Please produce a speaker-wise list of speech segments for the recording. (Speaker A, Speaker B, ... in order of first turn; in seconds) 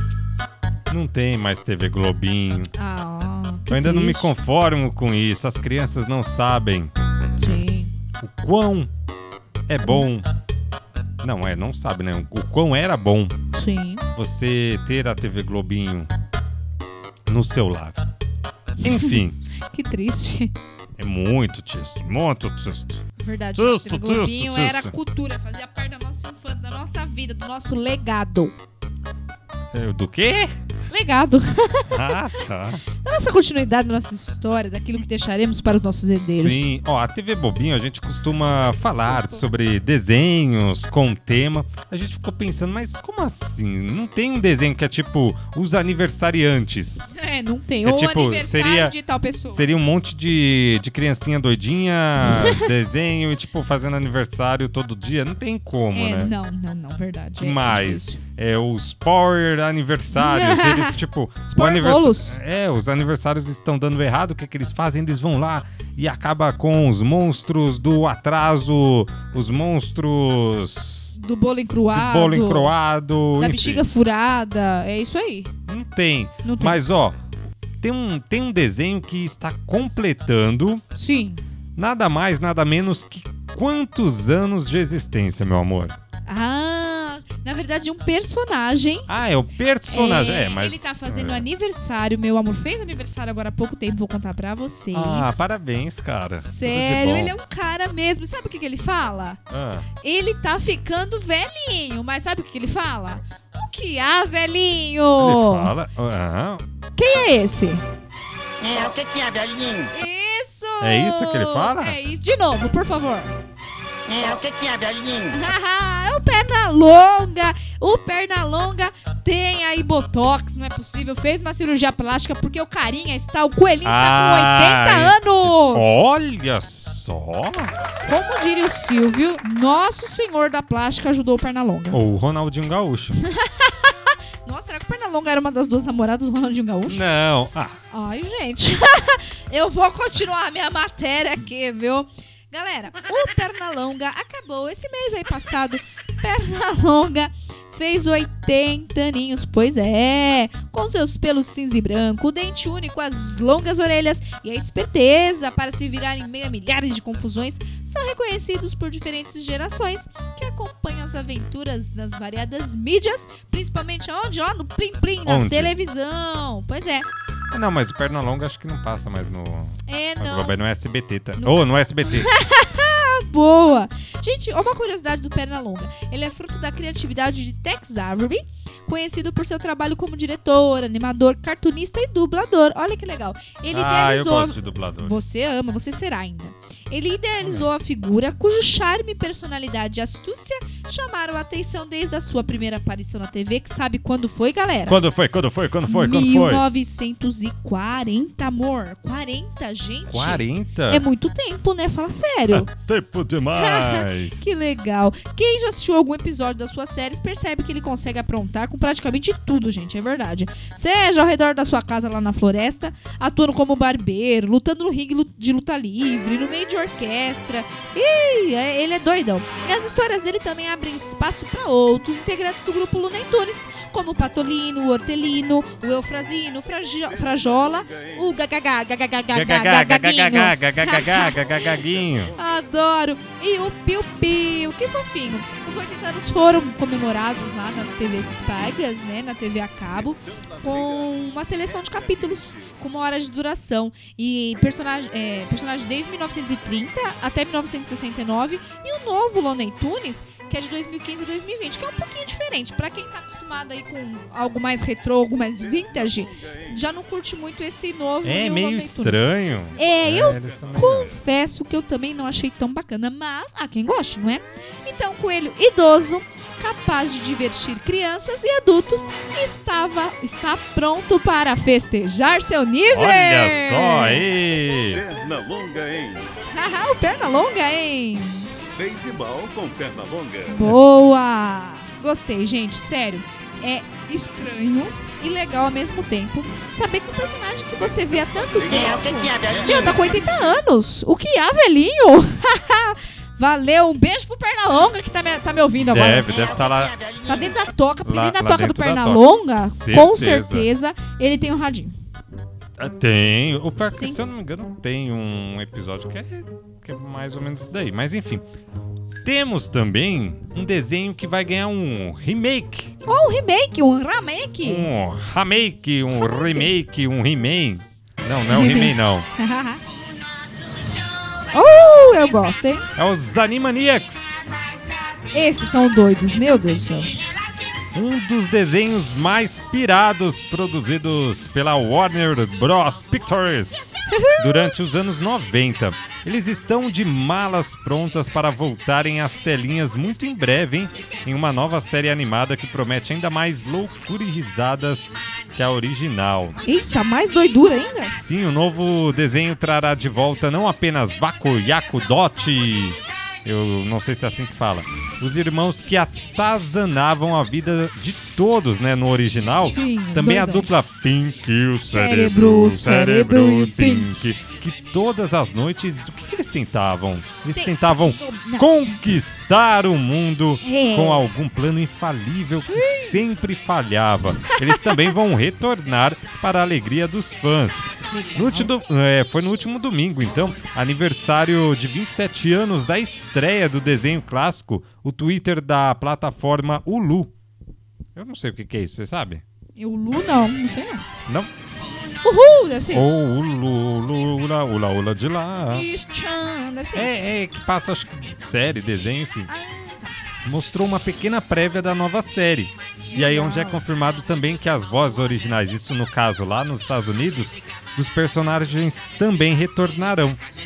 Speaker A: 0.9-2.7, 3.7-6.9, 8.2-8.9, 9.7-10.2, 11.2-13.3, 14.1-16.1, 17.3-18.0, 18.8-19.4, 21.0-23.0, 23.6-24.9, 29.7-30.5, 31.9-32.8, 36.2-47.1, 47.8-49.0, 49.5-56.3, 57.4-71.2, 71.9-73.8, 75.7-77.2, 77.8-80.8, 81.8-85.9, 89.1-91.4, 94.9-97.3, 99.5-99.9, 105.2-106.6, 110.8-112.0, 123.8-127.7, 131.9-133.2, 136.9-137.8, 165.2-165.7, 167.5-172.3, 183.7-185.4, 187.4-187.7, 194.9-196.6, 200.1-201.0, 202.5-204.6, 229.3-232.3, 258.2-261.1, 272.9-275.0, 295.8-296.9, 298.0-300.7, 302.8-308.4, 309.2-312.9, 314.6-319.2, 323.0-324.6, 327.9-346.6, 348.2-387.3, 388.1-389.4, 392.9-395.9, 396.9-399.5, 400.4-410.4
Speaker B: 2.7-4.3, 7.4-7.9, 13.5-14.0, 18.8-20.5, 23.2-28.5, 30.9-32.2, 33.0-36.7, 39.1-39.4, 47.1-49.8, 52.2-52.7, 55.9-58.2, 60.1-62.4, 71.1-72.7, 73.4-75.5, 76.4-76.8, 80.9-81.4, 86.2-89.1, 89.9-95.4, 96.3-99.4, 100.0-105.7, 107.0-107.8, 109.9-113.4, 115.3-125.9, 128.1-132.0, 133.2-137.1, 137.9-167.1, 169.8-170.6, 171.4-195.0, 195.8-202.7, 203.5-274.2, 276.5-278.5, 280.5-296.5, 297.3-301.9, 303.9-304.2, 313.0-314.9, 316.2-316.7, 318.5-319.8, 321.5-322.9, 325.3-327.1, 334.1-334.7, 346.6-348.2, 359.6-360.7, 361.7-364.1, 367.5-369.0, 370.6-371.3, 372.5-373.2, 374.5-375.1, 378.1-378.7, 389.8-391.1, 392.2-393.2, 395.7-397.3, 399.5-400.2, 403.1-403.8
Speaker C: 108.6-109.9, 114.1-115.3, 288.7-290.0, 296.2-297.6
Speaker D: 227.1-228.2, 231.9-232.4, 239.9-241.1, 241.7-242.8, 255.6-256.8, 259.7-261.1, 274.9-276.3, 278.8-280.7, 287.8-290.2